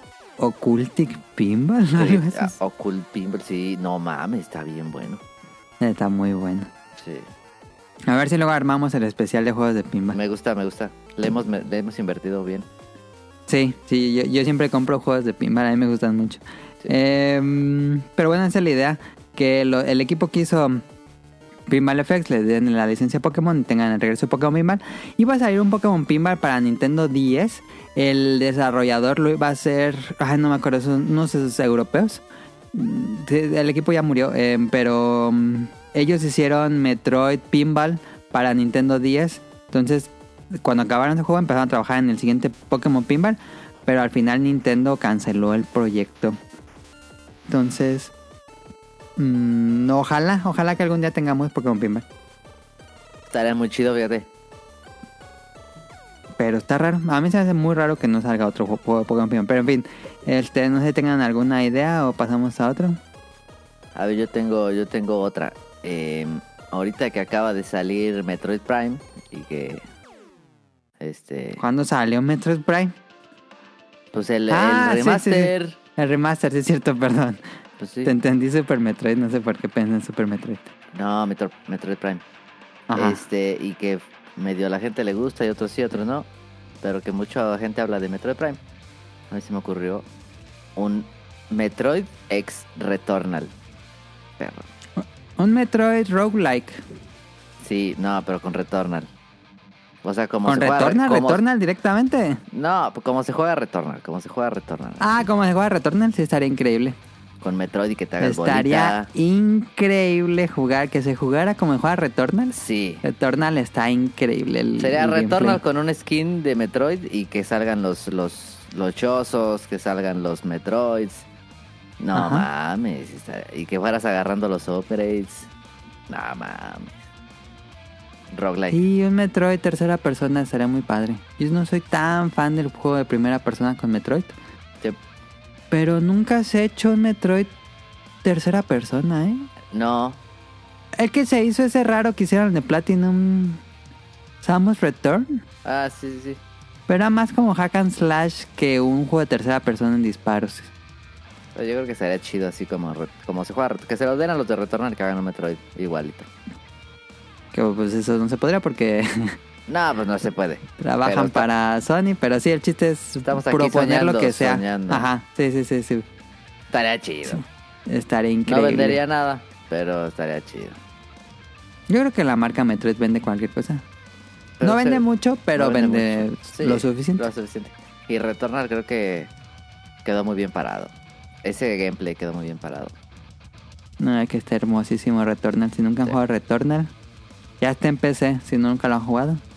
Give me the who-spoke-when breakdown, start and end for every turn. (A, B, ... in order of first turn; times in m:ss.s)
0:00.4-0:02.5 A
0:01.9-0:05.2 B
0:05.8-0:06.7 A
0:07.0-0:07.3 B
0:08.1-0:10.2 A
0:10.1-0:12.7 B
0:13.5-0:20.8 A
0:21.7-0:46.4 A
0:47.5-0:48.1 A
0:49.2-0:52.0 A
0:53.3-0:54.3 B
0:56.4-1:03.0 A
1:03.9-1:09.8 B
1:11.0-1:11.6 B
1:11.6-1:12.9 A
1:14.1-1:15.8 B
1:14.5-1:17.4 A
1:17.8-1:18.1 B
1:18.0-1:20.6 A
1:20.9-1:22.2 B
1:22.9-1:23.2 A
1:22.9-1:26.3 B
1:26.8-1:28.6 B
1:29.3-1:30.0 B
1:30.8-1:33.5 B
1:34.4-1:34.7 B
1:35.0-1:36.8 A
1:37.6-1:39.1 B
1:40.0-1:41.4 B
1:40.4-1:42.4 A
1:42.5-1:45.2 B
1:45.0-1:47.0 A
1:47.4-1:49.1 B
1:48.2-1:55.6 A
1:52.5-1:53.0 B
1:54.8-2:01.2 B
2:02.0-2:05.5 B
2:02.1-2:02.4 A
2:06.1-2:07.0 B
2:08.3-2:08.8 B
2:08.7-2:14.3 A
2:15.7-2:17.5 A
2:18.2-2:19.5 A
2:19.7-2:20.2 B
2:21.0-2:23.6 A
2:24.4-2:25.4 A
2:25.6-2:26.4 B
2:26.9-2:30.7 A
2:31.5-2:36.3 B
2:37.5-2:39.4 A
2:39.7-2:41.5 B
2:40.8-2:46.0 A
2:43.2-2:45.1 B
2:46.7-2:47.4 B
2:47.3-2:49.0 A
2:48.4-2:50.8 B
2:51.9-2:53.8 A
2:54.6-2:55.0 B
2:54.6-2:57.2 A
2:55.5-2:59.3 B
3:00.0-3:00.9 B
3:01.4-3:02.9 B
3:04.0-3:06.9 A
3:07.6-3:09.4 A